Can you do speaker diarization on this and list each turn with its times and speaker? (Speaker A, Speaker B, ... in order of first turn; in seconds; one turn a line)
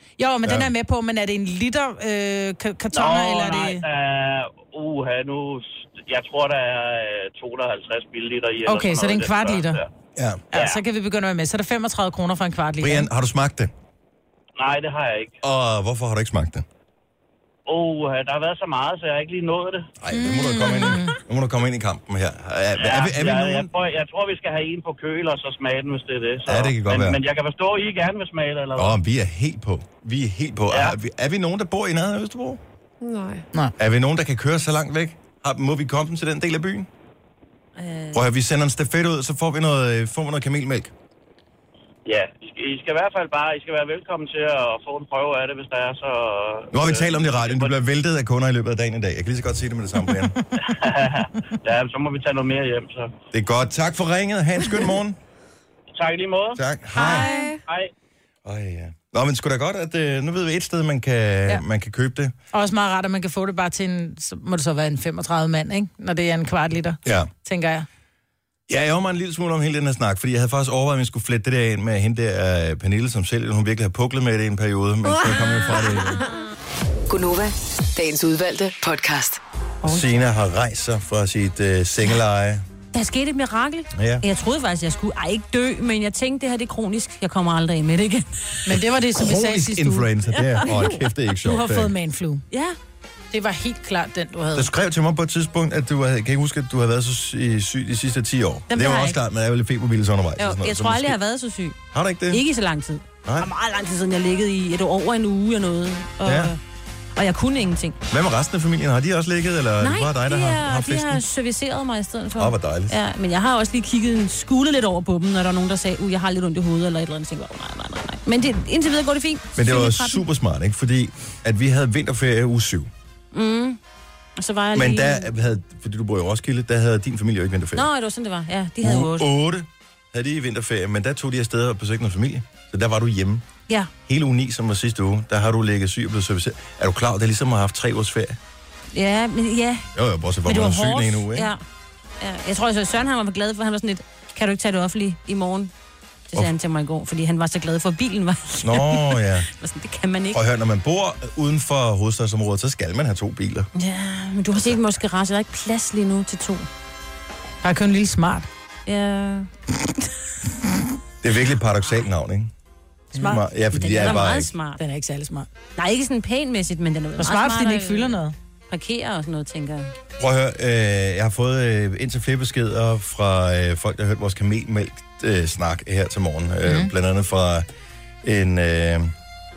Speaker A: 0.2-3.8
Speaker B: 0.5-0.7
Speaker C: 2.9-9.9
Speaker A: 8.7-9.8
Speaker B: 10.2-10.4
Speaker A: 10.5-13.1
Speaker C: 10.5-10.8
Speaker B: 12.8-13.7
Speaker C: 14.6-15.3
Speaker B: 15.4-16.6
Speaker C: 17.7-19.9
Speaker B: 20.0-23.7
Speaker A: 20.1-21.2
Speaker C: 22.8-29.0
Speaker B: 26.5-27.2
Speaker B: 28.8-32.6
Speaker D: 33.0-33.5
Speaker B: 33.8-36.9
Speaker E: 37.8-38.2
Speaker B: 38.1-40.9
Speaker C: 42.1-47.7
Speaker B: 46.7-50.4
Speaker C: 50.6-53.1
Speaker B: 53.3-55.2
Speaker C: 56.0-56.6
Speaker B: 56.6-57.3
Speaker A: 57.0-57.5
Speaker D: 57.0-57.6
Speaker B: 58.5-62.4
Speaker A: 62.5-67.9
Speaker B: 67.0-67.3
Speaker B: 68.7-76.3
Speaker D: 75.4-76.3
Speaker F: 77.1-79.4
Speaker B: 79.8-82.6
Speaker E: 82.9-88.6
Speaker B: 83.9-84.2
Speaker A: 88.7-90.1
Speaker B: 88.7-91.9
Speaker E: 90.5-90.7
Speaker A: 91.4-92.4
Speaker E: 92.5-92.8
Speaker A: 93.3-94.7
Speaker B: 94.5-101.2
Speaker E: 98.7-99.2
Speaker E: 100.4-101.8
Speaker B: 101.9-102.4
Speaker E: 102.3-106.6
Speaker B: 106.2-106.5
Speaker E: 107.2-108.0
Speaker B: 108.1-111.2
Speaker E: 109.8-120.2
Speaker B: 112.4-113.0
Speaker B: 119.6-122.9
Speaker E: 123.3-123.8
Speaker E: 124.4-125.3
Speaker B: 124.7-127.9
Speaker E: 127.8-129.3
Speaker B: 128.8-133.5
Speaker B: 134.1-138.4
Speaker E: 138.9-139.9
Speaker B: 139.9-141.5
Speaker E: 140.5-141.6
Speaker E: 142.2-145.7
Speaker E: 146.3-150.4
Speaker B: 148.6-149.5
Speaker B: 150.3-153.7
Speaker E: 153.8-156.7
Speaker A: 157.6-158.5
Speaker E: 158.9-159.5
Speaker B: 161.2-162.5
Speaker A: 163.2-163.4
Speaker B: 163.2-164.5
Speaker E: 163.7-164.8
Speaker A: 164.8-165.5
Speaker E: 165.8-168.2
Speaker A: 167.2-168.3
Speaker E: 168.7-169.9
Speaker B: 170.2-177.7
Speaker A: 176.7-176.9
Speaker B: 178.2-179.1